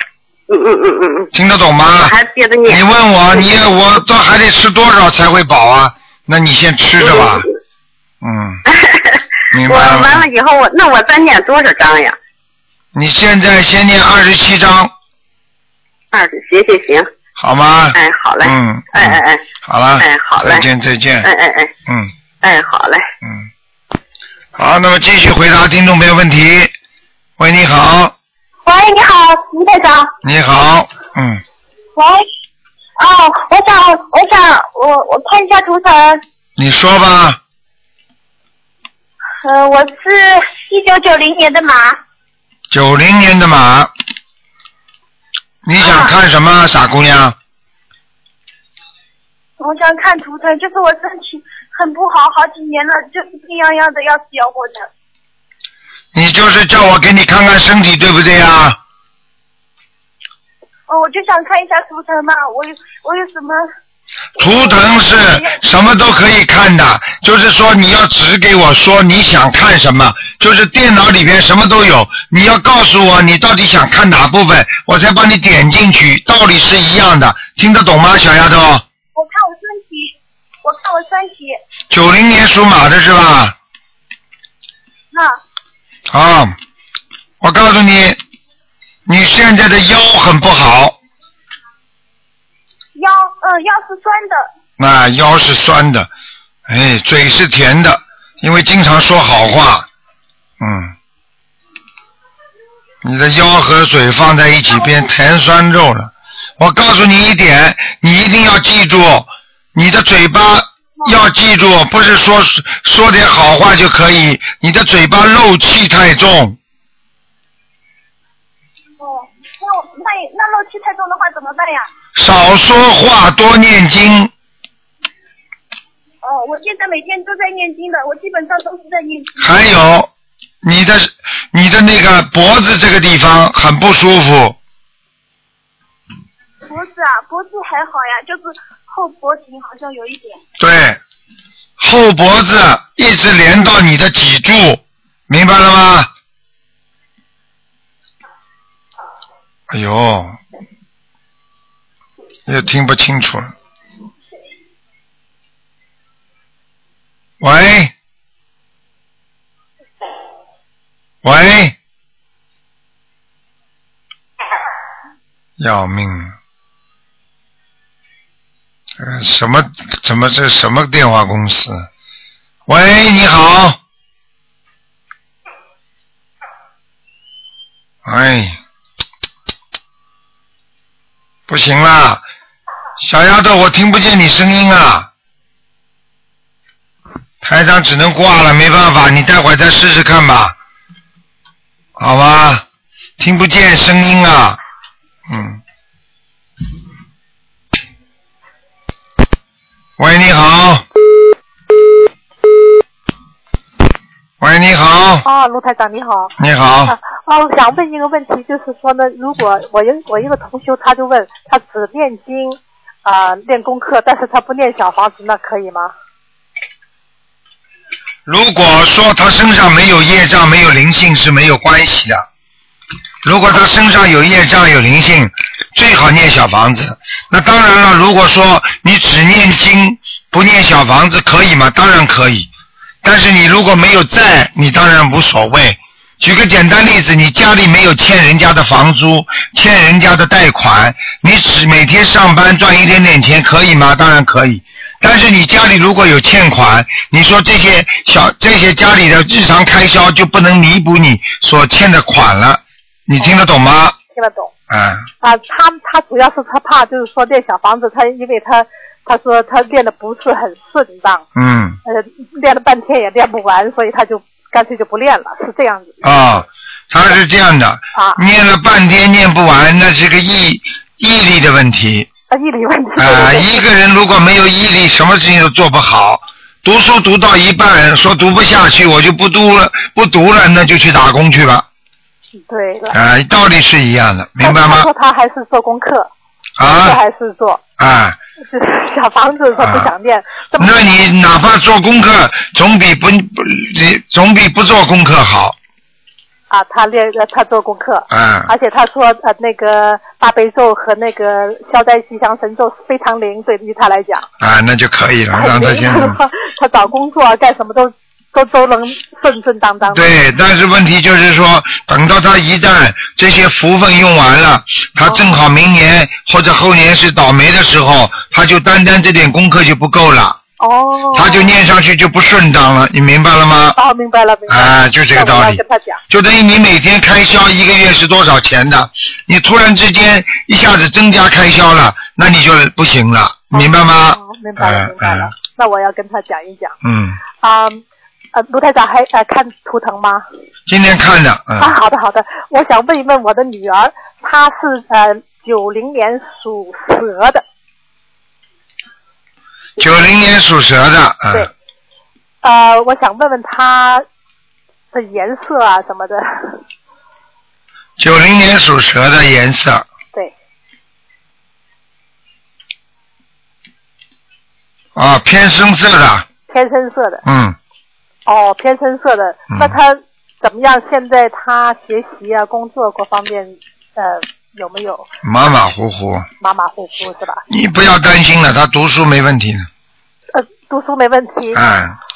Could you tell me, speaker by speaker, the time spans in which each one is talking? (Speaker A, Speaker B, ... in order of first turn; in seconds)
Speaker A: 0.5-1.3, 2.0-2.8, 7.0-7.5, 8.7-12.2, 16.1-17.1, 17.9-19.4, 20.0-20.6, 21.2-21.7, 22.4-23.1
Speaker B: 1.3-2.1, 2.6-7.5, 8.2-8.6, 9.5-10.2, 12.9-14.9, 17.4-21.3, 21.9-22.1, 23.2-23.5, 24.5-26.7, 27.4-28.1, 30.2-31.4, 36.6-37.4, 42.7-43.9, 45.6-47.4, 56.1-58.8, 64.4-78.8, 81.9-83.5, 86.1-86.5, 87.4-88.2, 89.0-91.0, 94.8-96.1, 96.7-99.9, 100.6-100.9, 103.0-116.6, 122.1-124.3, 129.4-130.1, 130.6-134.6, 140.6-141.0, 141.8-146.1, 149.7-150.4, 152.4-153.5, 157.4-157.9, 161.2-161.8, 165.6-166.3, 169.0-171.9, 172.7-173.8, 178.0-178.6, 181.5-182.2, 183.0-185.1, 187.4-190.5, 192.0-192.6, 193.2-194.6, 195.3-195.6, 200.0-200.8, 204.4-205.2, 206.4-206.9, 218.2-222.2, 223.2-232.5, 233.0-253.9, 254.7-255.1, 261.3-261.8, 266.0-272.1, 273.0-281.6, 282.9-284.9, 286.6-287.0, 287.8-288.2, 289.6-289.9, 290.6-295.6, 298.1-298.5, 304.4-306.2, 309.9-320.4, 321.1-323.8, 324.5-335.3, 336.8-337.2, 340.7-341.7, 349.8-351.5, 358.0-359.9, 364.9-366.3, 367.2-367.6, 369.5-369.8, 375.2-376.3, 377.5-379.7, 381.5-382.0
Speaker C: 28.6-30.1, 31.9-32.3, 33.0-36.2, 39.4-42.0, 45.8-46.1, 49.6-54.9, 60.9-63.6, 64.4-65.6, 79.1-80.1, 80.6-81.6, 85.1-85.4, 93.0-94.5, 119.0-121.9, 126.2-129.4, 136.6-140.4
Speaker D: 205.2-206.3, 206.8-215.9, 253.2-253.5, 254.1-254.5, 255.2-261.2, 261.8-266.0, 267.9-268.2, 272.3-273.6, 282.5-283.0, 284.4-286.1, 286.6-287.6, 288.5-291.0, 296.5-304.3, 305.3-310.1, 315.0-315.3, 320.6-321.6, 323.8-326.0, 333.5-336.8, 337.4-337.8, 338.3-340.2, 341.6-347.4, 352.4-354.0, 354.9-356.6, 366.5-367.2, 368.2-375.1, 376.4-377.4, 380.3-381.6